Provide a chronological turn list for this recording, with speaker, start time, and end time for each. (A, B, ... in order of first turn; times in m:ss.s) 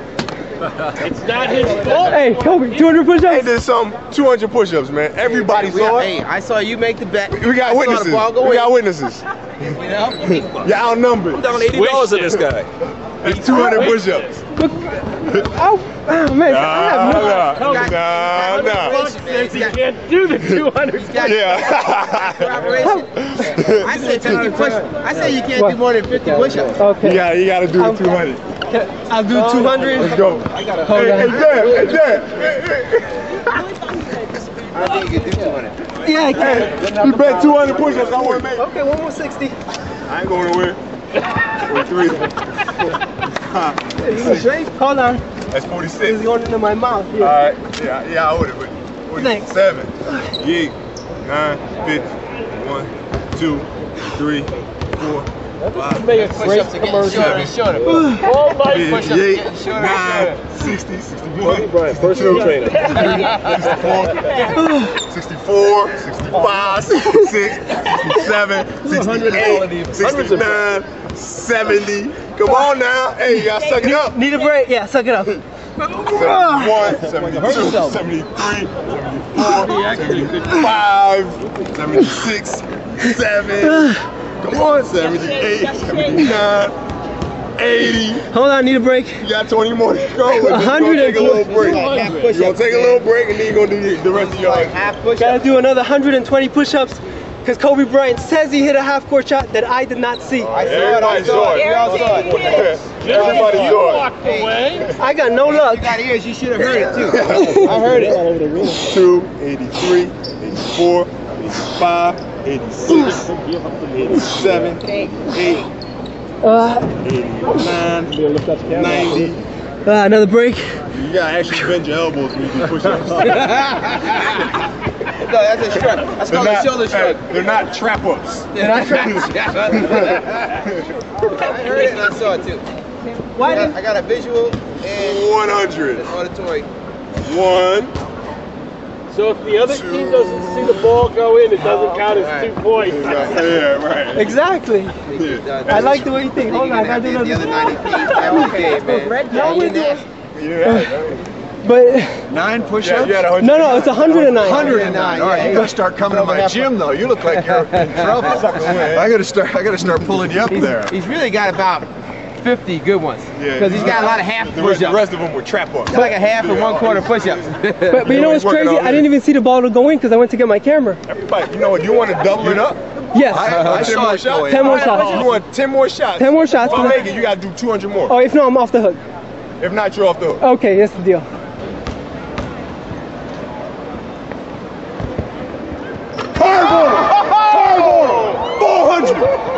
0:01.0-0:03.0 A
0:01.9-0:03.5 B
0:03.2-0:06.1 C
0:05.3-0:08.7 D
0:07.3-0:09.3 C
0:09.7-0:10.5 D
0:10.4-0:12.4 C
0:11.3-0:12.7 E
0:11.7-0:12.1 A
0:13.1-0:14.4 C
0:13.2-0:13.7 D
0:13.6-0:14.2 A
0:14.5-0:17.6 B
0:15.2-0:15.5 C
0:16.4-0:19.0 C
0:17.5-0:21.4 A
0:17.5-0:19.8 D
0:20.4-0:24.7 C
0:20.9-0:26.8 D
0:22.8-0:23.0 B
0:26.5-0:27.2 B
0:27.0-0:28.4 C
0:27.8-0:28.0 B
0:28.7-0:30.2 B
0:29.3-0:32.2 D
0:29.9-0:33.4 C
0:30.8-0:31.6 B
0:34.6-0:35.8 D
0:35.9-0:36.8 B
0:36.3-0:38.6 C
0:36.9-0:38.1 D
0:38.1-0:39.6 B
0:40.0-0:40.8 C
0:41.5-0:42.3 C
0:43.4-0:44.5 C
0:44.0-0:45.2 B
0:45.5-0:46.2 C
0:46.0-0:47.4 B
0:47.2-0:56.2 C
0:49.2-0:49.5 B
0:55.7-0:57.1 A
0:55.9-0:58.0 D
0:57.0-0:57.5 C
0:57.8-0:58.5 B
0:58.1-0:58.9 A
0:58.6-1:14.2 C
0:58.7-1:00.4 D
1:01.4-1:03.3 A
1:02.1-1:02.8 E
1:02.9-1:03.7 D
1:04.3-1:05.0 B
1:06.7-1:07.0 D
1:08.8-1:10.3 D
1:10.1-1:10.5 A
1:13.5-1:15.4 B
1:15.9-1:26.8 C
1:16.0-1:17.0 B
1:17.1-1:18.0 D
1:19.5-1:20.4 A
1:23.6-1:24.0 B
1:27.6-1:28.3 C
1:28.3-1:29.2 B
1:29.2-1:34.8 C
1:30.3-1:31.8 B
1:31.5-1:33.0 D
1:34.1-1:35.4 D
1:35.2-1:40.7 B
1:40.4-1:44.1 C
1:40.5-1:43.5 D
1:42.9-1:44.8 A
1:44.2-1:48.3 D
1:44.9-1:45.9 B
1:47.0-1:47.7 C
1:47.4-1:47.7 B
1:47.8-1:48.8 A
1:48.7-1:53.3 C
1:53.8-1:55.7 C
1:56.4-1:56.9 B
1:57.0-1:59.4 C
1:58.1-1:59.3 A
1:59.8-2:00.8 B
2:00.9-2:03.6 C
2:03.2-2:04.4 D
2:05.1-2:07.3 D
2:06.3-2:10.9 C
2:08.5-2:10.4 D
2:08.6-2:09.3 B
2:11.3-2:12.7 D
2:13.2-2:13.7 B
2:13.4-2:16.7 D
2:15.0-2:16.1 C
2:17.2-2:17.9 C
2:19.1-2:23.3 A
2:19.6-2:20.7 C
2:21.6-2:23.4 D
2:22.8-2:24.4 C
2:24.1-2:25.0 B
2:25.1-2:30.0 D
2:25.2-2:26.0 C
2:25.7-2:30.0 B
2:30.3-2:31.2 C
2:30.6-2:30.9 B
2:31.6-2:32.2 B
2:32.3-2:33.3 F
2:32.8-2:35.2 C
2:33.4-2:35.0 B
2:34.4-2:36.8 D
2:34.4-2:41.0 F
2:37.4-2:38.4 D
2:38.2-2:39.2 C
2:40.1-2:40.7 C
2:40.5-2:45.0 D
2:43.4-2:49.1 C
2:45.9-2:48.2 D
2:47.9-2:51.0 B
2:51.0-2:58.2 C
2:53.1-2:53.8 B
2:53.3-2:54.9 F
2:53.4-2:53.9 D
2:54.4-2:55.4 B
2:56.2-2:57.0 B
2:58.1-2:59.0 B
2:59.6-3:00.4 C
3:00.4-3:01.3 B
3:06.4-3:09.3 C